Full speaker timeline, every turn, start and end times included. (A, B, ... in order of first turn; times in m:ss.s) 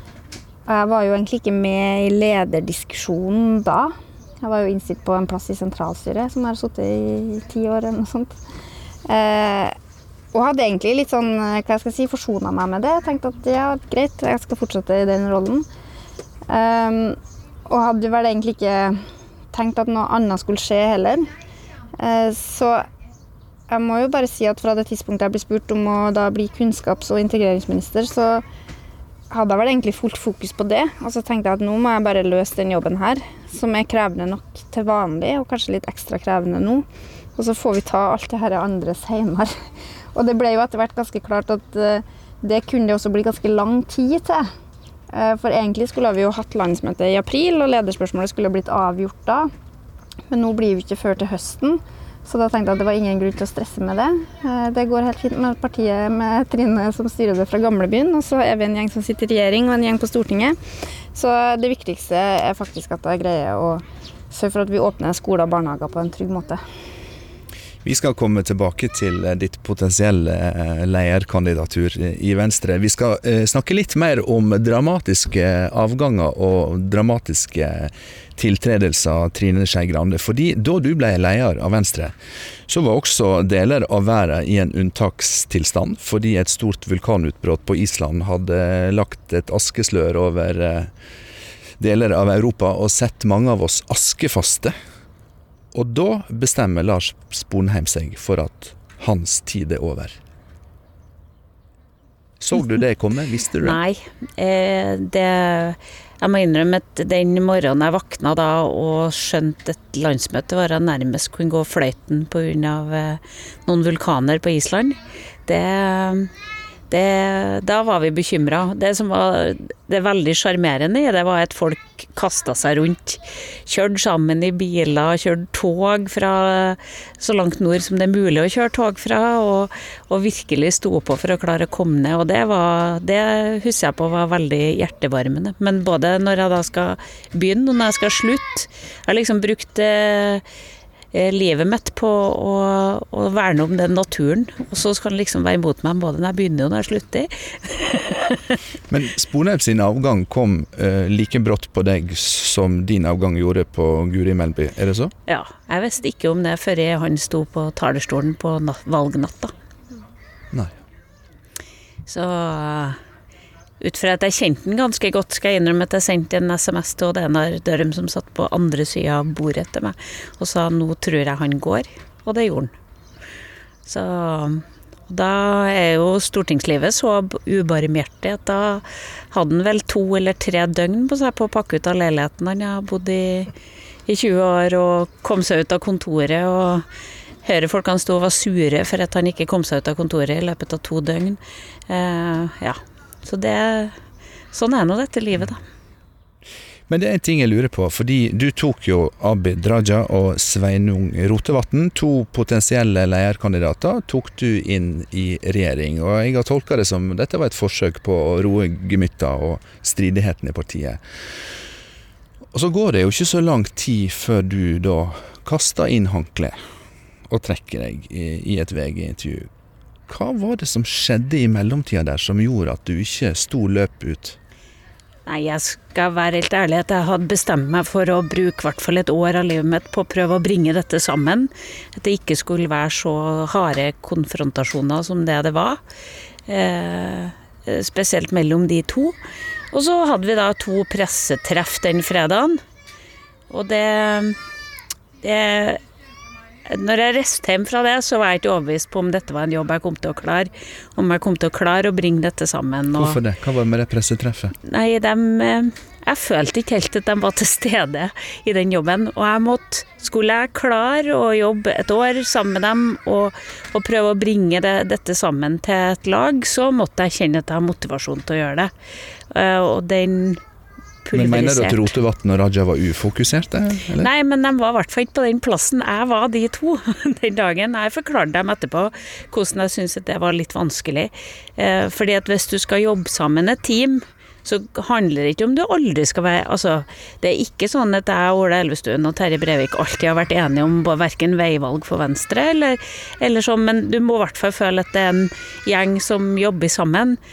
0:00.7-0:08.4 A
0:09.1-0:09.8 A
0:10.3-0:15.7 A
0:16.5-0:19.0 A
0:19.5-0:21.3 A
0:22.0-0:22.9 A
0:23.7-0:28.4 A
0:29.3-0:36.9 A
0:37.4-0:39.5 A
0:40.2-0:44.5 A
0:45.1-0:49.5 A
0:50.3-1:00.6 A
1:01.2-1:06.6 A
1:07.8-1:22.1 B
1:22.7-1:30.9 B
1:31.8-1:34.7 B
1:35.7-1:40.2 B
1:42.4-1:43.8 B
1:43.6-1:56.3 C
1:56.9-2:20.4 C
2:21.1-2:28.6 C
2:28.9-2:35.1 B
2:35.3-2:39.5 C
2:42.1-2:43.0 C
2:43.8-2:52.7 C
2:53.9-3:03.5 C
3:04.1-3:06.8 C
3:07.4-3:13.9 C
3:14.5-3:15.6 C
3:16.9-3:31.0 B
3:32.5-3:36.6 B
3:37.3-3:39.5 B
3:40.1-3:44.4 B
3:45.3-3:55.8 C
3:56.5-3:59.2 C
3:59.7-4:02.6 C
4:03.5-4:04.4 C
4:05.2-4:05.8 C
4:06.7-4:13.2 C
4:13.0-4:14.6 B
4:14.6-4:28.7 C
4:29.3-4:30.4 C
4:31.0-4:31.9 C
4:31.1-4:34.1 B
4:34.0-4:57.2 C